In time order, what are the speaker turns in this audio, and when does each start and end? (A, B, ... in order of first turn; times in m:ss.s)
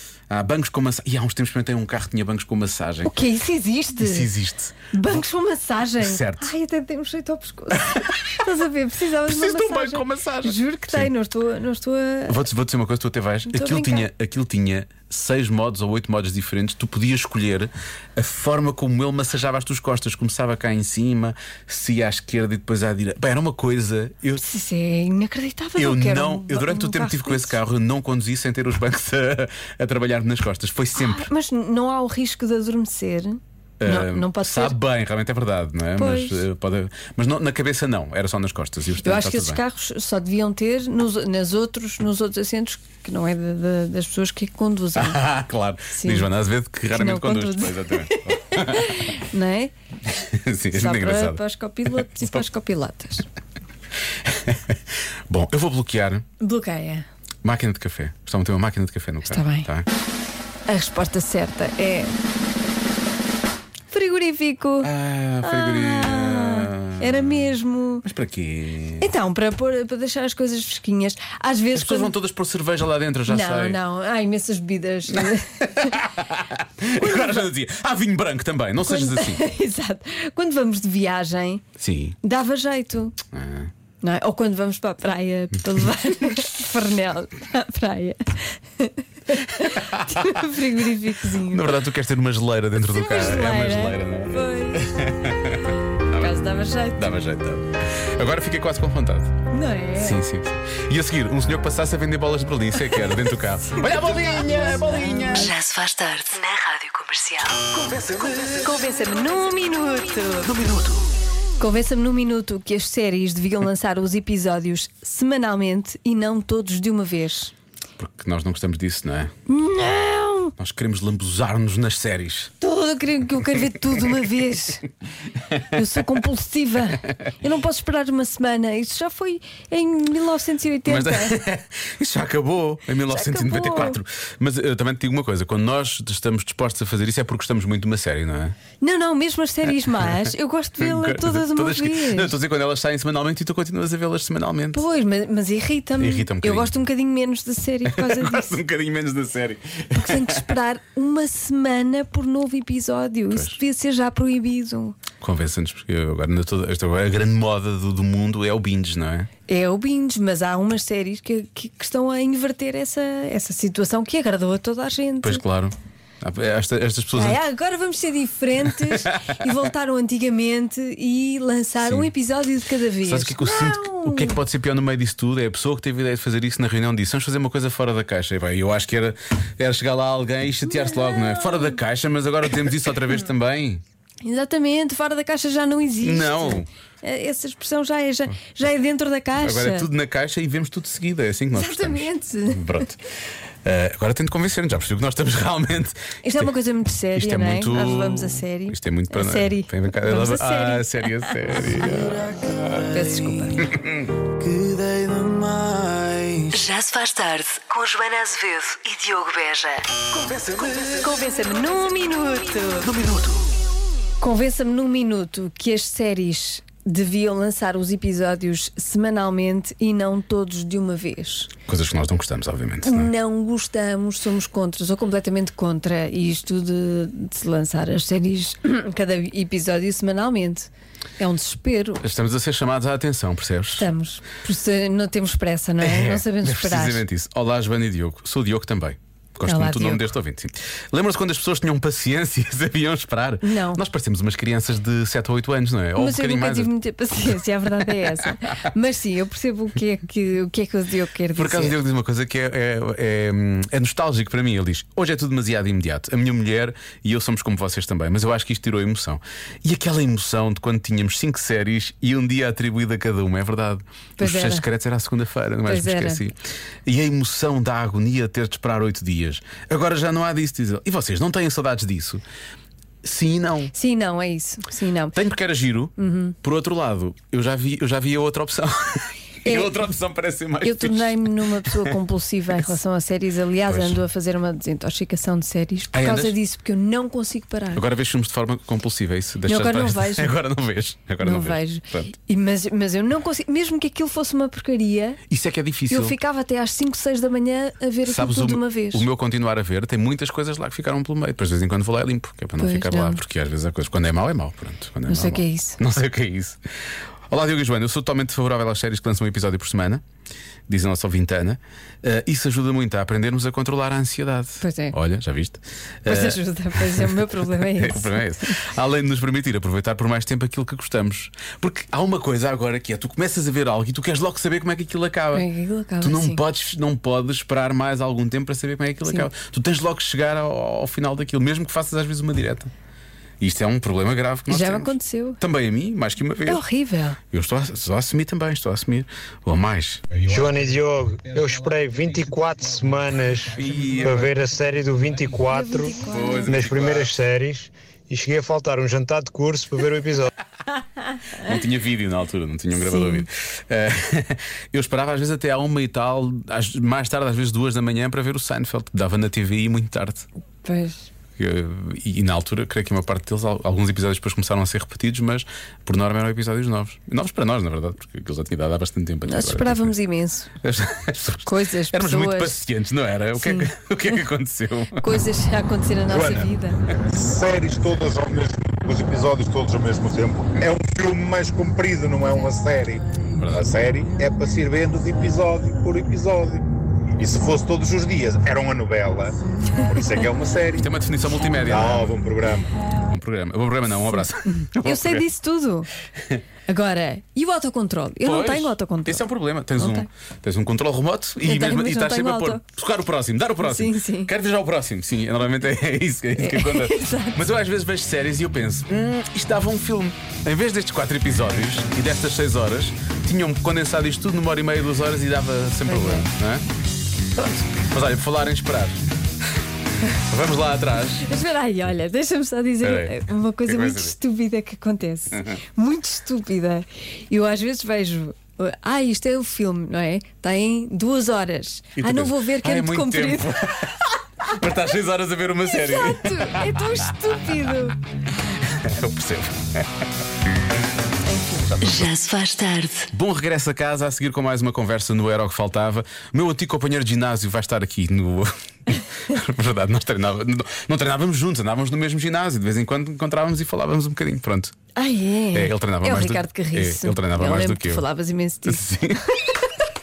0:00.3-0:03.2 A
0:03.0-0:04.3 B
0:04.0-0:05.2 A
0:04.9-0:12.4 B
0:06.0-0:06.5 A
0:08.0-0:08.4 A
0:09.3-0:11.1 A
0:12.3-0:24.4 A
0:13.5-0:14.1 B
0:24.4-0:27.6 B
0:25.8-0:31.3 A
0:31.0-0:34.8 B
0:33.8-0:39.6 A
0:36.0-0:36.4 B
0:39.0-0:45.2 B
0:45.0-0:49.1 A
0:46.0-0:46.3 B
0:46.9-0:49.7 B
0:50.1-0:51.4 A
0:50.7-0:53.2 B
0:52.0-0:52.3 A
0:54.2-0:54.8 A
0:55.3-0:56.2 A
0:56.4-0:57.1 B
0:57.4-0:59.9 A
0:59.3-0:59.7 B
1:00.7-1:02.1 B
1:03.9-1:04.9 B
1:04.8-1:07.5 A
1:05.4-1:08.0 B
1:08.0-1:09.1 A
1:09.0-1:12.1 B
1:11.8-1:13.8 A
1:13.3-1:15.9 B
1:15.1-1:19.4 A
1:17.0-1:17.4 B
1:18.8-1:21.6 B
1:21.8-1:22.2 A
1:22.2-1:23.2 B
1:23.3-1:23.7 A
1:24.0-1:31.7 B
1:29.9-1:30.4 A
1:31.5-1:36.3 A
1:32.8-1:34.9 B
1:36.2-1:37.1 B
1:37.0-1:39.3 A
1:39.5-1:40.2 B
1:40.0-1:45.5 A
1:44.1-1:45.4 B
1:45.3-1:47.7 C
1:47.8-1:48.4 A
1:48.5-1:50.6 B
1:50.5-1:50.9 A
1:51.6-1:57.5 B
1:58.0-1:59.3 A
1:59.5-2:00.6 B
2:00.6-2:02.5 A
2:02.6-2:04.8 B
2:05.7-2:11.4 B
2:10.9-2:18.6 A
2:13.1-2:14.0 B
2:18.8-2:22.3 B
2:20.8-2:24.8 A
2:24.7-2:28.6 B
2:26.0-2:26.7 A
2:27.9-2:30.5 A
2:29.9-2:35.0 B
2:33.3-2:33.6 A
2:35.2-2:39.3 A
2:39.5-2:45.4 B
2:45.2-2:47.4 A
2:47.2-2:54.4 B
2:51.8-2:52.1 A
2:53.0-3:03.8 A
3:00.8-3:01.7 B
3:04.2-3:09.9 B
3:06.0-3:06.7 A
3:09.4-3:13.0 A
3:11.6-3:12.8 B
3:13.6-3:16.5 A
3:16.2-3:21.4 B
3:17.1-3:23.0 A
3:22.8-3:23.7 B
3:23.6-3:24.3 A
3:26.5-3:29.9 C
3:30.8-3:33.0 B
3:34.2-3:41.5 B
3:41.7-3:43.1 A
3:42.8-3:52.0 B
3:52.0-3:53.9 A
3:53.8-3:57.0 B
3:55.8-4:06.7 A
3:59.4-4:00.1 B
4:03.4-4:03.8 B
4:06.0-4:11.8 B
4:11.4-4:26.4 A
4:24.2-4:24.6 B
4:25.6-4:26.2 B
4:26.9-4:32.2 A
4:33.0-4:33.7 A
4:33.7-4:35.2 B
4:35.1-4:41.9 A
4:36.0-4:36.4 B
4:39.4-4:39.9 B
4:40.6-4:47.8 B
4:43.7-4:44.0 A
4:45.9-4:46.4 A
4:47.8-4:52.1 A
4:49.5-4:50.4 B
4:51.2-4:55.2 B
4:55.3-4:56.2 A
4:55.9-4:59.0 B
4:58.1-5:06.6 A
5:02.6-5:03.2 B
5:05.1-5:05.8 B
5:07.3-5:10.0 A
5:10.7-5:17.1 A
5:14.6-5:15.0 B
5:16.1-5:18.5 B
5:17.7-5:25.4 A
5:25.3-5:26.4 B
5:26.0-5:32.7 A
5:33.4-5:36.6 A
5:34.5-5:35.4 B
5:36.5-5:37.2 B
5:37.3-5:40.0 A
5:40.1-5:50.3 D
5:43.5-5:44.3 A
5:45.5-5:46.5 B
5:46.0-5:47.1 A
5:51.4-6:00.2 A
5:52.8-5:53.3 B
6:00.6-6:01.1 B
6:01.4-6:09.9 A
6:09.3-6:10.5 B
6:10.6-6:15.1 A
6:11.4-6:12.6 B
6:13.4-6:13.7 B
6:15.0-6:16.8 B
6:16.1-6:16.5 E
6:17.1-6:30.9 E
6:23.4-6:23.7 A
6:30.8-6:32.1 A
6:31.6-6:32.7 E
6:33.0-6:35.2 A
6:34.4-6:35.9 B
6:36.7-6:40.1 B
6:38.2-6:56.6 A
6:41.4-6:42.6 B
6:43.6-6:44.3 B
6:46.4-6:47.4 B
6:55.9-6:56.3 B
6:57.8-6:59.0 A
7:00.2-7:01.3 A
7:01.2-7:13.5 B
7:02.8-7:04.2 A
7:12.0-7:16.7 A
7:15.7-7:18.0 B
7:18.6-7:19.9 A
7:21.2-7:21.7 B
7:21.7-7:22.1 A
7:21.8-7:23.1 C
7:23.1-7:34.8 A
7:35.0-7:38.8 B
7:35.5-7:38.0 A
7:38.7-7:39.6 A